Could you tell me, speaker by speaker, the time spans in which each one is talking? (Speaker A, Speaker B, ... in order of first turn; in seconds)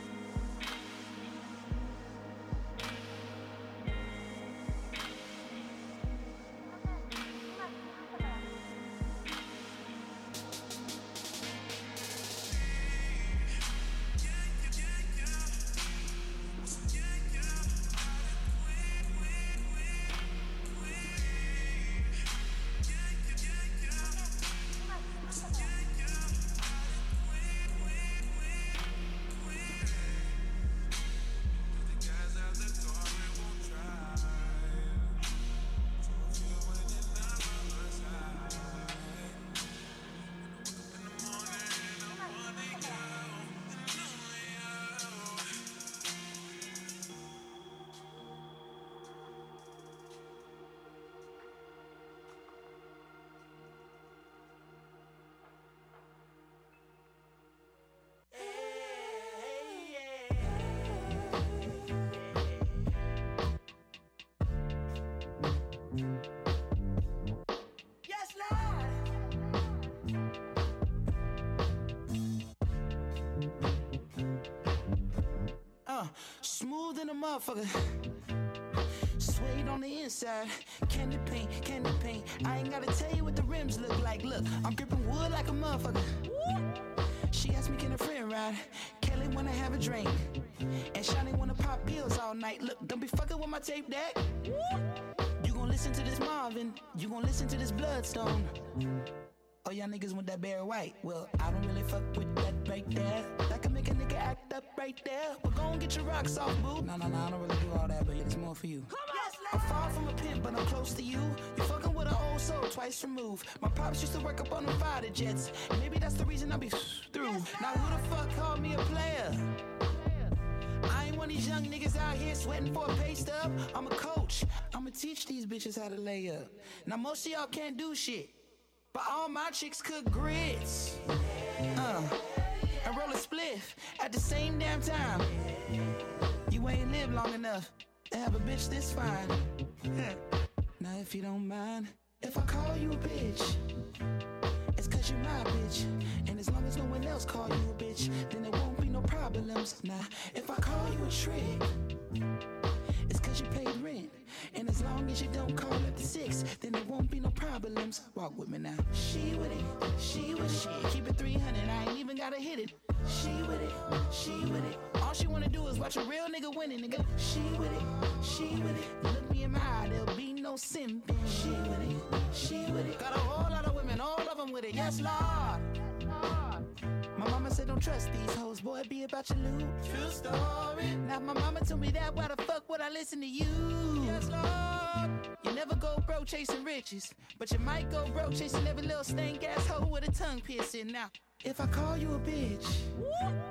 Speaker A: 68.2-68.8, 75.9-77.9, 79.2-86.2, 87.3-90.4, 90.9-94.3, 95.4-98.5, 99.6-119.5, 120.9-128.3, 128.9-131.0, 131.7-132.2, 132.8-135.3, 136.5-140.2, 140.8-143.6, 144.8-151.7, 153.1-175.7, 177.1-192.9